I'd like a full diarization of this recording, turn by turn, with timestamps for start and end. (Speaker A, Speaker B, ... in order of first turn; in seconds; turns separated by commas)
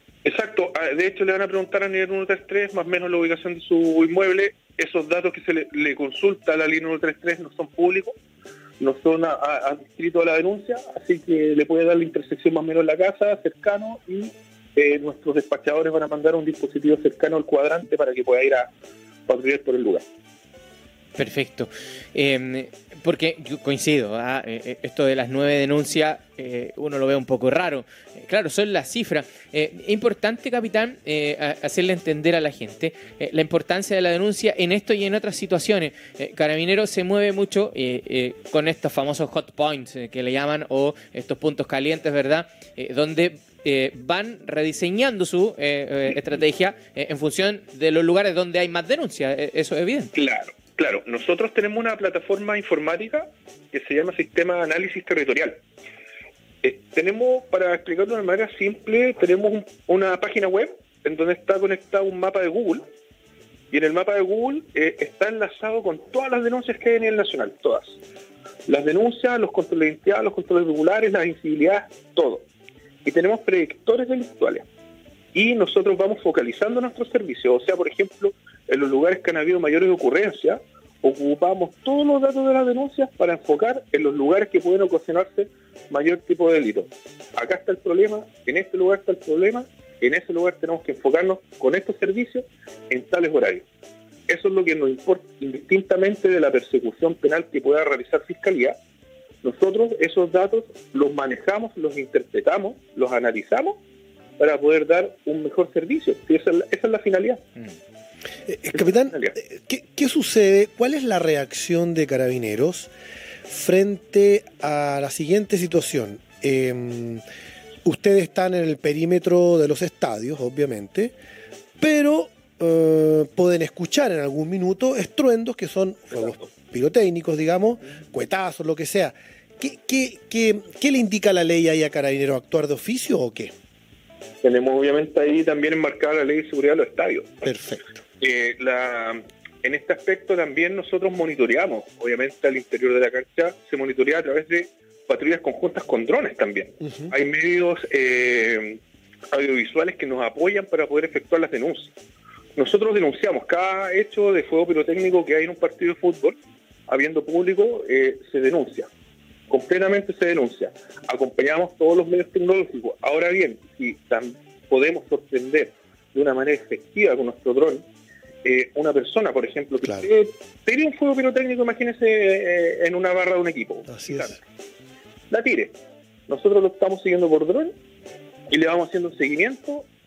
Speaker A: 0.2-8.1, Speaker A: 8.8-18.7, Speaker A: 19.3-20.0, Speaker B: 21.1-50.1, Speaker A: 50.1-55.6, Speaker A: 56.6-62.8, Speaker A: 63.7-68.0, Speaker A: 68.7-72.5, Speaker A: 73.0-74.6, Speaker A: 75.3-93.7, Speaker A: 94.3-98.8, Speaker A: 99.4-103.8, Speaker A: 104.4-107.4, Speaker C: 108.5-112.9, Speaker A: 108.7-109.3, Speaker C: 113.5-117.2, Speaker C: 117.8-121.1, Speaker C: 121.8-133.5, Speaker A: 126.1-126.5, Speaker A: 134.4-137.4, Speaker C: 137.4-137.9, Speaker A: 138.2-148.8, Speaker C: 146.8-147.1, Speaker A: 149.3-151.9, Speaker A: 152.6-156.3, Speaker A: 156.9-158.9, Speaker A: 159.5-167.8, Speaker A: 168.4-174.4, Speaker C: 173.9-174.3, Speaker A: 175.3-175.7, Speaker A: 176.3-177.7, Speaker A: 178.5-179.9